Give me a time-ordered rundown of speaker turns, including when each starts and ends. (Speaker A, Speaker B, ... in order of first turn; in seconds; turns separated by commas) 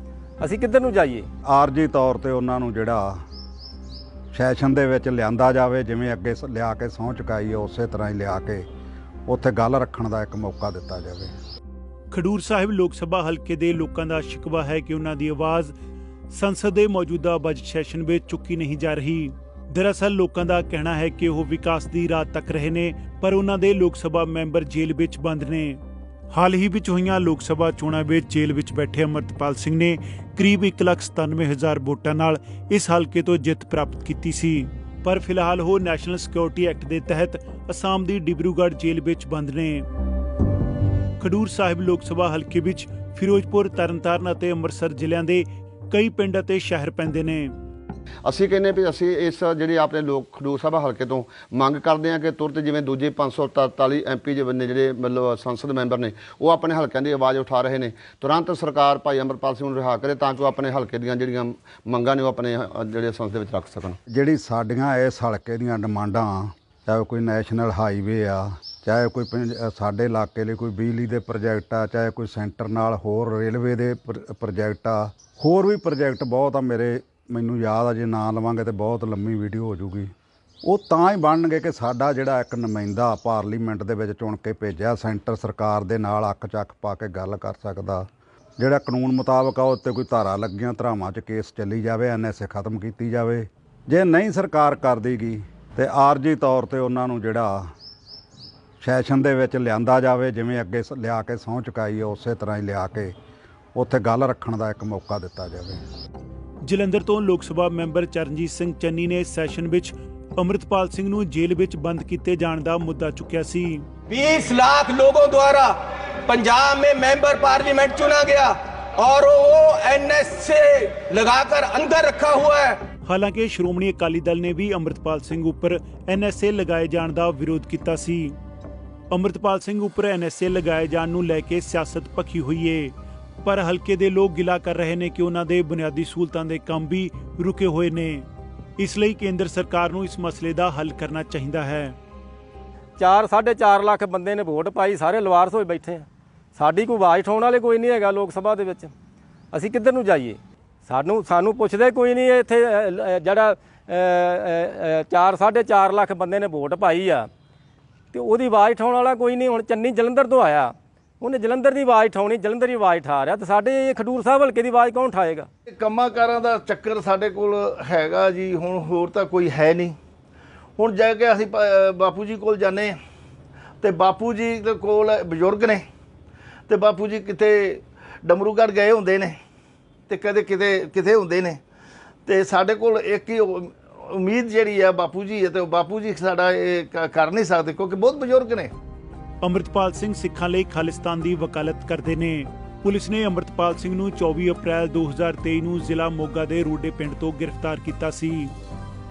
Speaker A: 0.4-1.3, Speaker B: 1.5-3.2, Speaker B: 4.3-8.6, Speaker B: 9.3-11.3, Speaker C: 12.1-15.7, Speaker C: 16.3-25.8, Speaker C: 26.3-39.9, Speaker C: 41.2-47.5, Speaker D: 48.2-64.0, Speaker B: 64.1-80.1, Speaker B: 80.7-88.0, Speaker B: 88.6-97.7, Speaker B: 98.8-103.1, Speaker B: 103.8-105.8, Speaker C: 106.6-113.9, Speaker E: 114.1-122.8, Speaker C: 123.0-128.4, Speaker C: 129.1-132.9, Speaker C: 133.4-138.3, Speaker C: 138.8-142.0, Speaker A: 143.0-148.9, Speaker A: 149.5-157.3, Speaker A: 158.1-165.5, Speaker F: 165.7-170.0, Speaker F: 170.8-173.0, Speaker F: 173.8-175.8, Speaker F: 176.7-179.4, Speaker F: 180.1-181.6, Speaker F: 182.3-188.7, Speaker C: 189.4-198.5